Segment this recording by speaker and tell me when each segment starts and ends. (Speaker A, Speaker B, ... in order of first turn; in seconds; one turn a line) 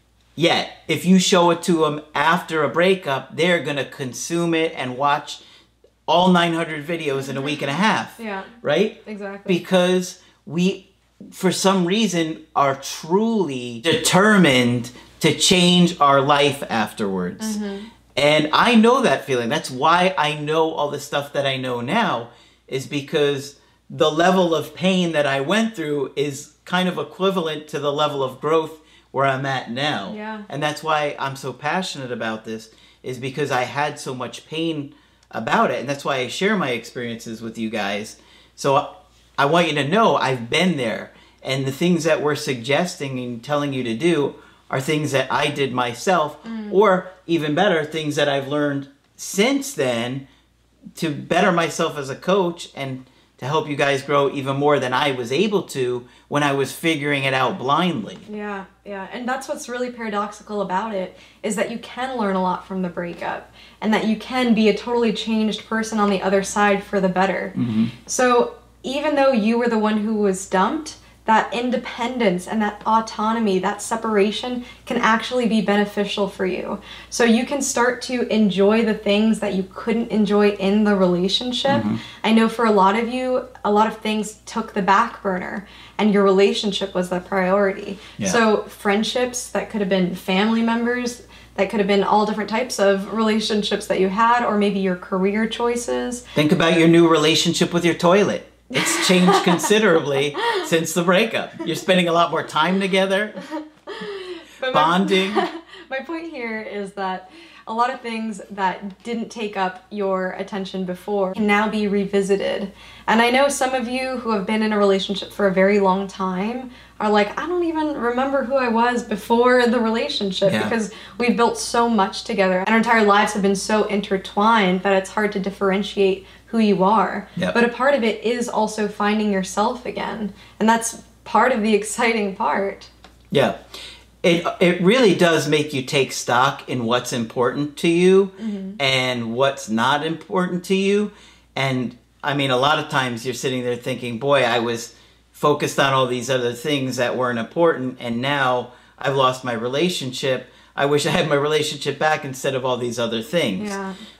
Speaker A: 0.4-5.4
Speaker A: 6.1-17.6
Speaker B: 7.2-8.5
Speaker B: 9.1-9.6
Speaker B: 17.4-17.9
Speaker A: 18.1-50.2
Speaker B: 30.1-30.5
Speaker B: 46.4-46.8
Speaker A: 51.0-58.2
Speaker B: 58.2-67.5
Speaker A: 67.6-67.9
Speaker B: 68.0-96.2
Speaker A: 81.7-82.0
Speaker A: 96.3-103.4
Speaker B: 98.7-99.7
Speaker B: 103.4-132.9
Speaker A: 104.7-105.4
Speaker A: 120.5-120.7
Speaker A: 133.3-133.6
Speaker A: 134.2-153.7
Speaker B: 138.4-138.8
Speaker B: 153.6-153.9